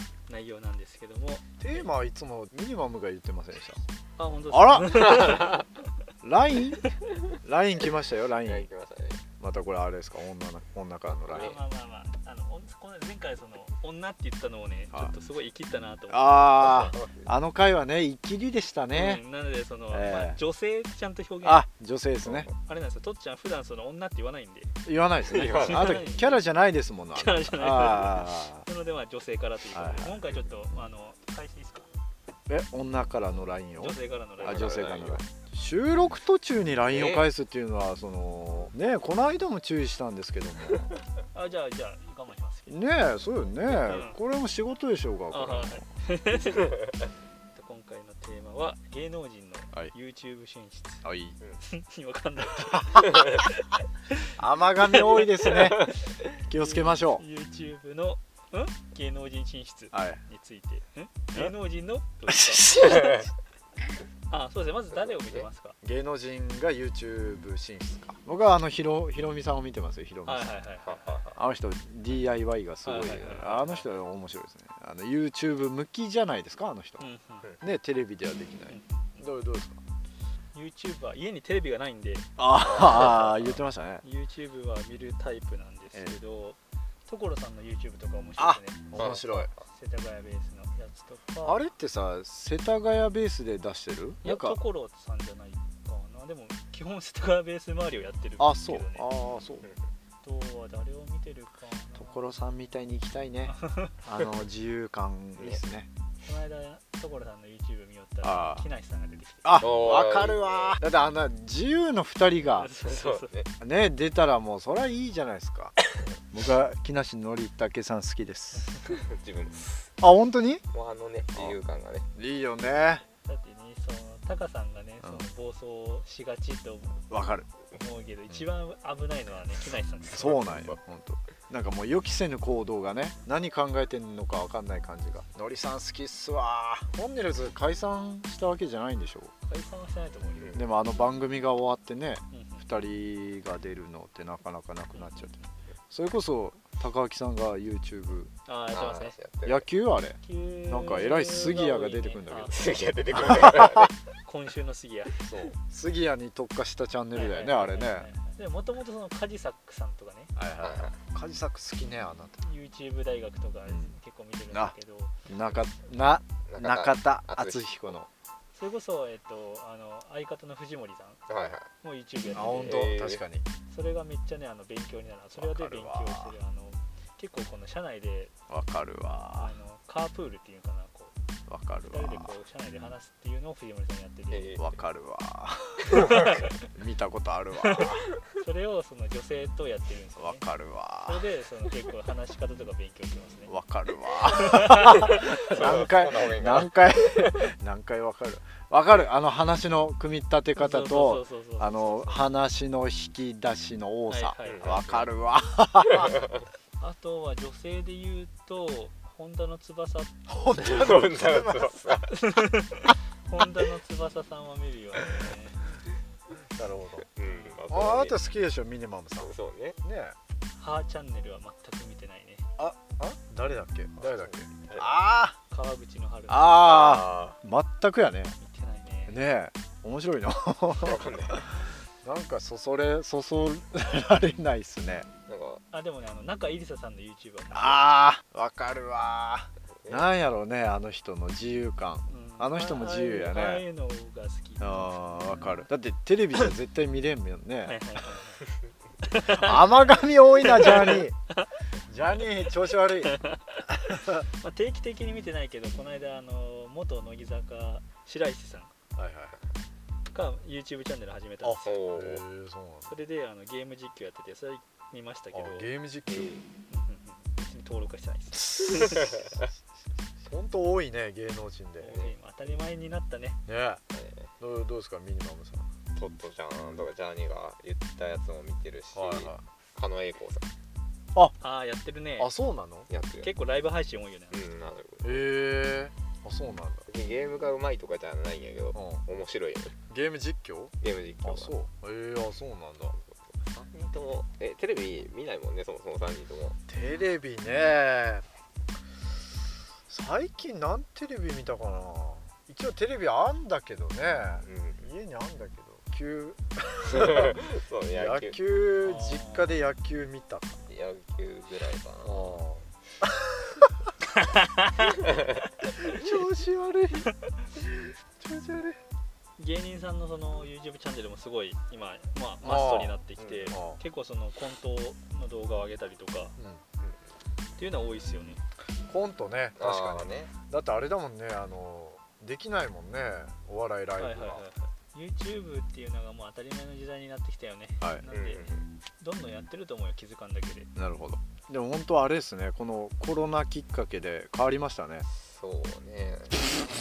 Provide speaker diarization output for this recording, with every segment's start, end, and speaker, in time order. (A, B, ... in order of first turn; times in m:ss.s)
0:00.3-0:01.4 A
0:01.6-0:03.8 B
0:04.2-0:05.6 A
0:04.5-0:05.4 B
0:05.1-0:05.6 C
0:06.2-0:08.7 B
0:08.4-0:09.2 C
0:09.4-0:11.6 B
0:11.1-0:11.6 C
0:11.3-0:16.6 A
0:16.1-0:19.2 B
0:16.6-0:17.3 C
0:18.9-0:21.6 A
0:19.9-0:20.4 B
0:21.4-0:22.5 B
0:22.2-0:22.6 C
0:22.6-0:24.7 A
0:24.8-0:28.6 B
0:25.3-0:26.1 C
0:25.5-0:26.3 A
0:27.2-0:31.9 A
0:29.7-0:30.2 B
0:32.5-0:40.9 B
0:33.8-0:34.8 A
0:34.4-0:35.2 C
0:36.9-0:37.3 C
0:41.3-0:42.7 A
0:42.7-0:45.9 B
0:43.7-0:44.0 C
0:43.8-0:44.2 A
0:45.3-0:46.7 A
0:47.5-0:51.0 A
0:51.0-0:51.4 B
0:51.6-0:54.3 A
0:54.4-0:57.2 B
0:54.9-0:55.9 A
0:55.5-0:56.0 C
0:56.5-1:02.7 A
0:59.9-1:00.2 B
1:02.3-1:03.2 B
1:02.8-1:03.2 C
1:04.3-1:05.8 A
1:04.9-1:05.5 C
1:05.8-1:10.6 B
1:10.2-1:11.2 A
1:10.8-1:11.4 C
1:11.4-1:17.1 B
1:12.8-1:13.9 A
1:17.0-1:17.5 A
1:17.6-1:19.8 B
1:18.7-1:19.2 A
1:20.5-1:31.7 A
1:22.4-1:24.0 B
1:22.6-1:23.3 C
1:28.4-1:29.5 B
1:28.9-1:29.6 C
1:31.4-1:34.6 B
1:34.2-1:39.1 A
1:38.4-1:39.6 B
1:40.2-1:42.2 A
1:42.0-1:45.9 B
1:43.5-1:43.9 A
1:46.2-1:49.6 A
1:48.2-1:48.6 B
1:49.4-1:52.8 B
1:49.6-1:50.8 C
1:52.4-1:53.3 A
1:52.8-1:53.5 C
1:53.6-1:55.7 B
1:56.3-1:58.8 B
1:58.9-1:59.9 C
2:00.0-2:00.6 B
2:00.7-2:02.1 C
2:01.3-2:01.6 B
2:02.2-2:03.0 B
2:03.2-2:07.1 A
2:07.1-2:07.5 B
2:07.7-2:10.4 A
2:10.1-2:19.3 B
2:10.2-2:10.8 C
2:19.4-2:20.6 A
2:20.4-2:20.6 C
2:20.5-2:25.3 B
2:22.3-2:22.7 A
2:24.9-2:25.5 A
2:25.9-2:28.3 B
2:28.4-2:29.2 A
2:28.7-2:29.6 C
2:29.4-2:32.5 B
2:30.2-2:32.6 A
2:32.5-2:33.9 C
2:34.2-2:35.1 A
2:35.2-2:38.1 B
2:37.1-2:40.3 A
2:40.4-2:42.4 B
2:40.6-2:41.0 C
2:42.4-2:45.1 A
2:43.7-2:43.9 B
2:45.2-2:48.1 B
2:46.5-2:47.6 C
2:48.5-2:51.2 A
2:51.3-2:51.7 C
2:51.8-2:52.9 A
2:52.3-2:53.4 B
2:52.6-2:53.2 C
2:53.7-2:58.3 A
2:55.3-2:56.4 B
2:58.5-2:59.6 B
2:59.4-3:01.1 A
3:01.5-3:02.4 B
3:01.8-3:04.5 A
3:04.3-3:04.8 C
3:04.6-3:08.0 B
3:05.9-3:06.5 A
3:05.9-3:06.3 C
3:07.6-3:10.4 A
3:10.2-3:11.2 B
3:11.0-3:13.5 A
3:13.5-3:26.1 B
3:14.2-3:15.4 A
3:15.1-3:17.4 C
3:20.6-3:22.3 A
3:24.1-3:24.7 A
3:24.4-3:25.1 C
3:26.8-3:30.1 A
3:30.3-3:31.7 B
3:30.6-3:32.1 C
3:32.1-3:35.6 A
3:36.6-3:37.0 B
3:37.2-3:38.2 C
3:37.2-3:37.6 A
3:37.7-3:40.2 B
3:39.2-3:39.8 C
3:40.6-3:42.4 A
3:42.6-3:45.4 B
3:44.0-3:44.9 C
3:45.5-3:46.8 A
3:46.3-3:48.4 B
3:46.6-3:47.4 C
3:48.4-3:49.2 A
3:49.1-3:51.3 B
3:50.8-3:51.5 C
3:52.0-3:55.1 B
3:55.3-3:55.6 C
3:55.7-3:57.9 A
3:57.5-4:03.6 B
3:59.8-4:00.1 C
4:02.1-4:05.7 A
4:04.6-4:07.8 B
4:07.6-4:08.4 A
4:09.0-4:11.5 A
4:09.2-4:11.2 B
4:11.9-4:13.1 B
4:13.0-4:18.7 A
4:13.9-4:14.2 B
4:18.9-4:19.4 B
4:20.1-4:21.8 A
4:21.4-4:23.0 B
4:21.6-4:22.2 C
4:22.8-4:25.7 A
4:25.3-4:26.3 B
4:26.1-4:26.4 C
4:26.7-4:29.2 A
4:28.6-4:29.0 B
4:28.8-4:29.3 C
4:30.2-4:32.0 B
4:31.8-4:33.4 A
4:33.4-4:33.8 B
4:33.9-4:34.3 C
4:34.4-4:35.7 B
4:35.9-4:40.5 C
4:38.9-4:39.4 B
4:41.4-4:42.3 A
4:42.2-4:42.9 B
4:42.9-4:43.3 C
4:43.2-4:44.4 A
4:44.3-4:45.2 C
4:45.0-4:46.8 B
4:46.9-4:49.8 C
4:48.7-4:49.0 B
4:49.9-4:52.9 B
4:50.8-4:51.5 C
4:52.9-4:56.6 C
4:56.7-4:58.2 B
4:59.9-5:07.4 B
5:04.4-5:04.9 C
5:06.9-5:08.4 C
5:07.9-5:10.6 B
5:08.8-5:09.6 A
5:10.7-5:12.4 C
5:12.0-5:12.6 B
5:14.2-5:15.0 A
5:15.7-5:18.8 B
5:19.4-5:26.4 A
5:22.4-5:23.8 B
5:23.2-5:23.6 C
5:26.4-5:26.6 B
5:27.6-5:28.4 A
5:28.9-5:34.4 B
5:29.6-5:30.3 C
5:34.0-5:40.7 A
5:37.8-5:38.0 B
5:38.1-5:38.7 C
5:40.8-5:45.0 B
5:45.2-5:46.5 C